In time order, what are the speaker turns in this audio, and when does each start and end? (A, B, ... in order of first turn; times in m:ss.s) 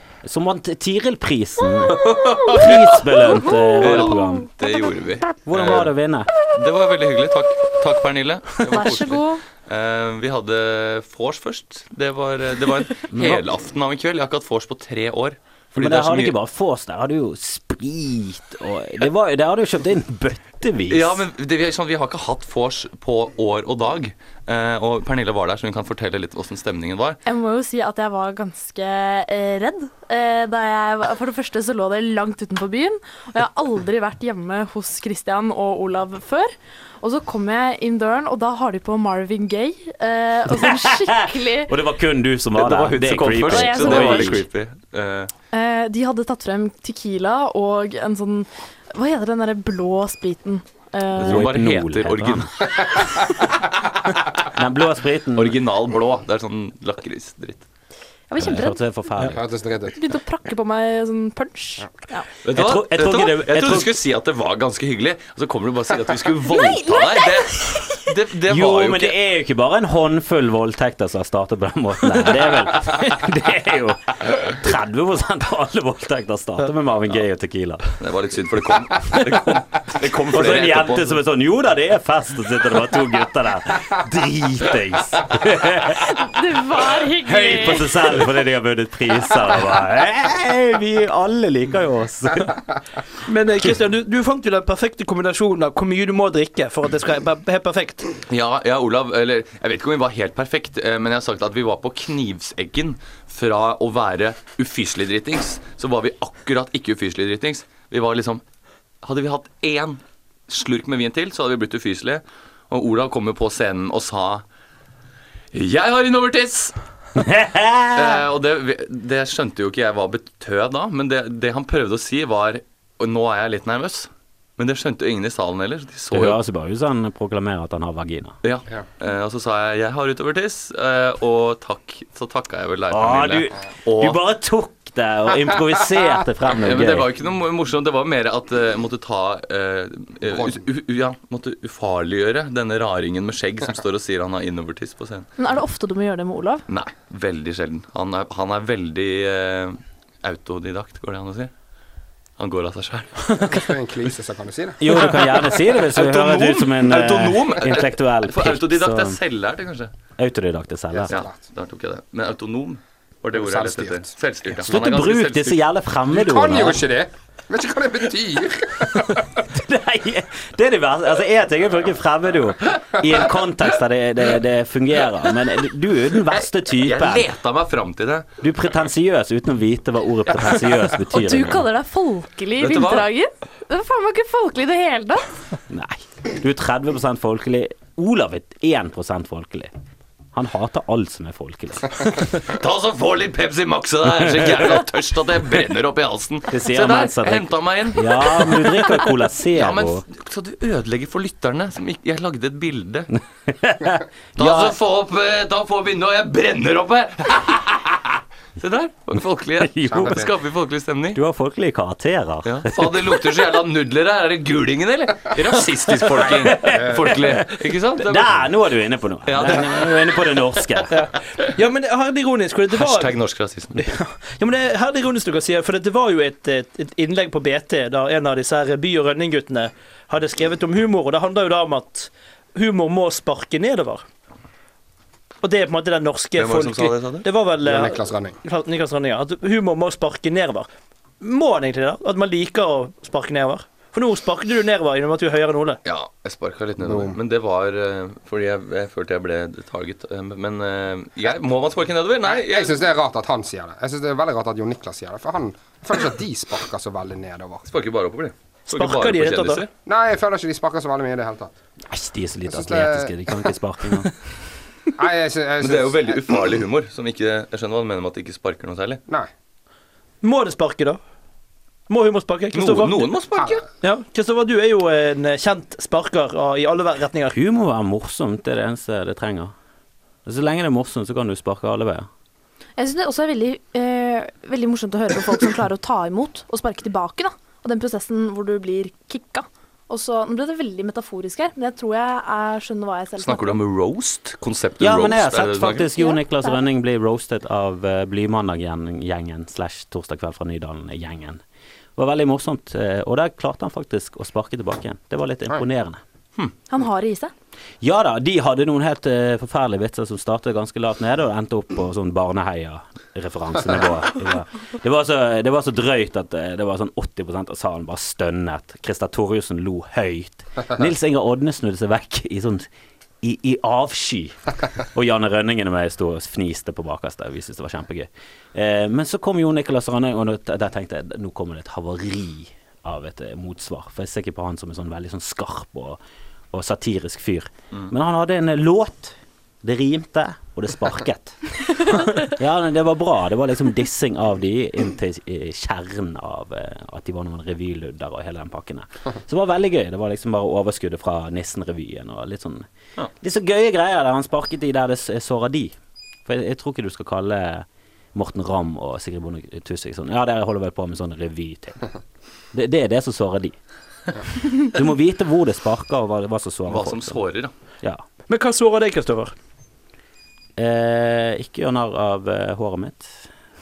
0:00.2-0:04.5 A
0:01.9-0:05.9 B
0:05.4-0:06.3 A
0:06.5-0:16.4 B
0:08.6-0:09.4 C
0:13.1-0:13.5 A
0:15.7-0:21.2 A
0:20.9-0:27.2 B
0:27.2-0:36.5 C
0:37.0-0:41.7 C
0:40.5-0:44.4 A
0:42.6-0:45.3 B
0:43.5-0:44.4 C
0:45.5-0:51.4 C
0:51.2-0:52.8 B
0:51.2-0:52.8 A
0:54.5-0:55.6 A
0:55.4-0:57.7 B
0:58.3-0:58.8 C
0:58.4-0:59.4 A
0:59.2-1:00.0 D
0:59.9-1:02.3 C
1:02.4-1:09.2 B
1:02.6-1:04.0 A
1:06.5-1:08.0 C
1:08.5-1:18.0 A
1:18.0-1:21.2 B
1:19.1-1:19.6 A
1:20.3-1:26.1 A
1:26.1-1:27.9 C
1:27.2-1:32.6 A
1:33.3-1:38.1 E
1:38.3-1:48.4 B
1:49.0-1:54.4 B
1:55.5-1:56.8 B
1:57.2-1:58.2 A
1:57.9-2:06.4 B
2:06.1-2:08.4 A
2:08.4-2:14.2 B
2:12.9-2:17.1 A
2:16.6-2:25.3 B
2:25.4-2:26.6 C
2:26.7-2:31.5 B
2:32.4-2:33.4 B
2:33.4-2:34.9 D
2:34.8-2:39.2 A
2:35.8-2:39.9 B
2:40.2-2:41.2 A
2:40.9-2:41.3 D
2:41.1-2:45.6 B
2:43.3-2:44.1 D
2:44.7-2:46.8 A
2:46.1-2:49.3 D
2:48.8-2:57.3 A
2:56.7-2:58.3 B
2:58.4-3:01.6 A
3:01.1-3:05.3 C
3:02.6-3:03.1 B
3:05.7-3:09.7 A
3:10.3-3:12.4 A
3:12.4-3:19.0 B
3:14.3-3:14.5 A
3:16.5-3:20.0 A
3:19.5-3:23.2 B
3:23.5-3:24.8 A
3:24.4-3:31.2 B
3:29.6-3:30.3 A
3:29.9-3:30.3 D
3:31.1-3:33.4 A
3:32.4-3:38.5 B
3:36.1-3:40.9 A
3:36.6-3:37.2 D
3:39.2-3:39.9 B
3:40.9-3:43.1 E
3:42.7-3:43.9 B
3:43.8-3:54.0 E
3:55.4-4:00.7 E
3:56.4-3:57.3 B
3:57.6-3:58.4 D
4:01.2-4:05.8 E
4:05.8-4:12.8 B
4:06.8-4:07.2 D
4:12.2-4:17.7 D
4:17.7-4:19.7 B
4:18.7-4:19.6 E
4:19.9-4:21.5 D
4:21.9-4:24.1 A
4:22.5-4:23.4 D
4:25.0-4:26.4 D
4:25.6-4:29.0 B
4:30.2-4:31.0 E
4:31.9-4:33.1 E
4:32.5-4:33.7 B
4:33.4-4:33.6 D
4:33.8-4:37.4 E
4:37.3-4:39.5 A
4:40.2-4:42.1 A
4:42.8-4:53.6 C
4:53.2-4:55.9 B
4:54.8-5:01.4 A
4:56.0-4:56.6 C
5:02.0-5:06.0 A
5:06.7-5:07.3 C
5:07.8-5:22.7 A
5:23.2-5:36.0 A
5:36.5-5:52.7 A
5:53.2-6:01.8 A
6:02.5-6:03.6 A
6:04.4-6:07.2 A
6:06.7-6:07.5 B
6:08.3-6:09.3 E
6:10.6-6:13.3 A